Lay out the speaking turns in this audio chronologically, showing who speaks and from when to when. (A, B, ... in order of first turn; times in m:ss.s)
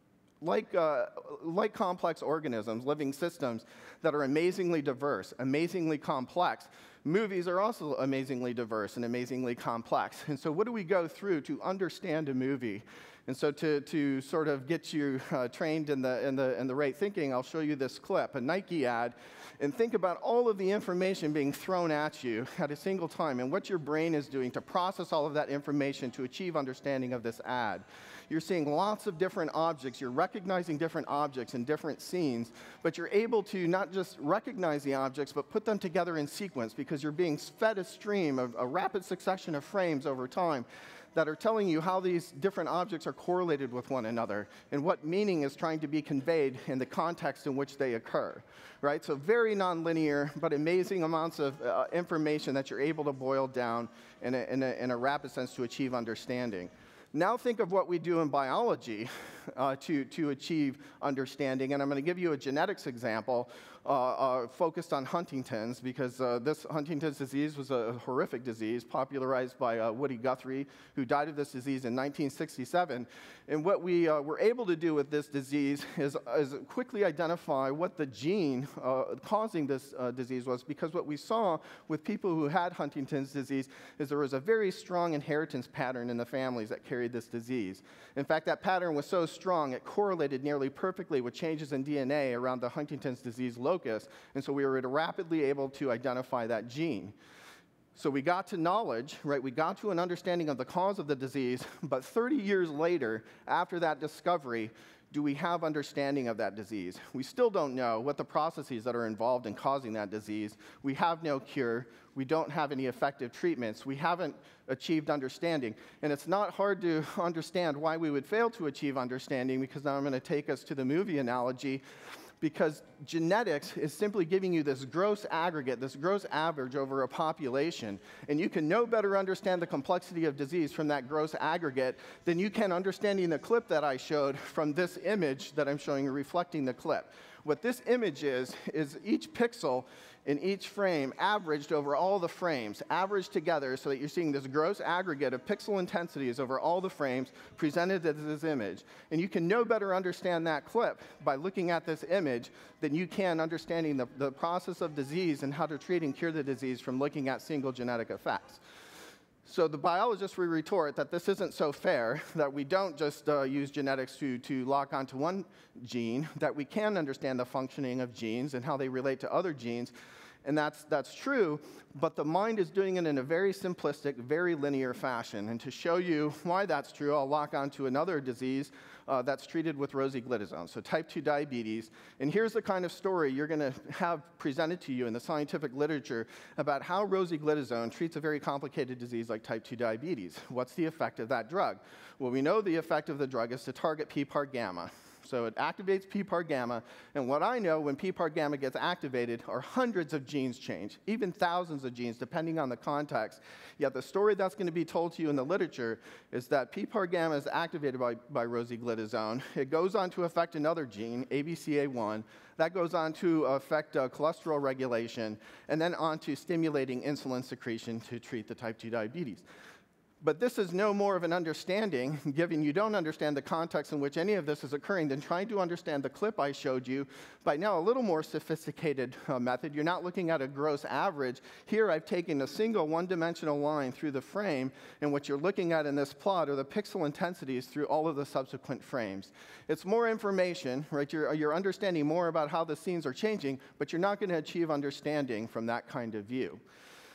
0:00.4-1:37.1 A
1:37.9-2:01.8 A
2:02.4-2:38.6 A
2:39.4-3:39.4 A
3:40.2-4:06.6 A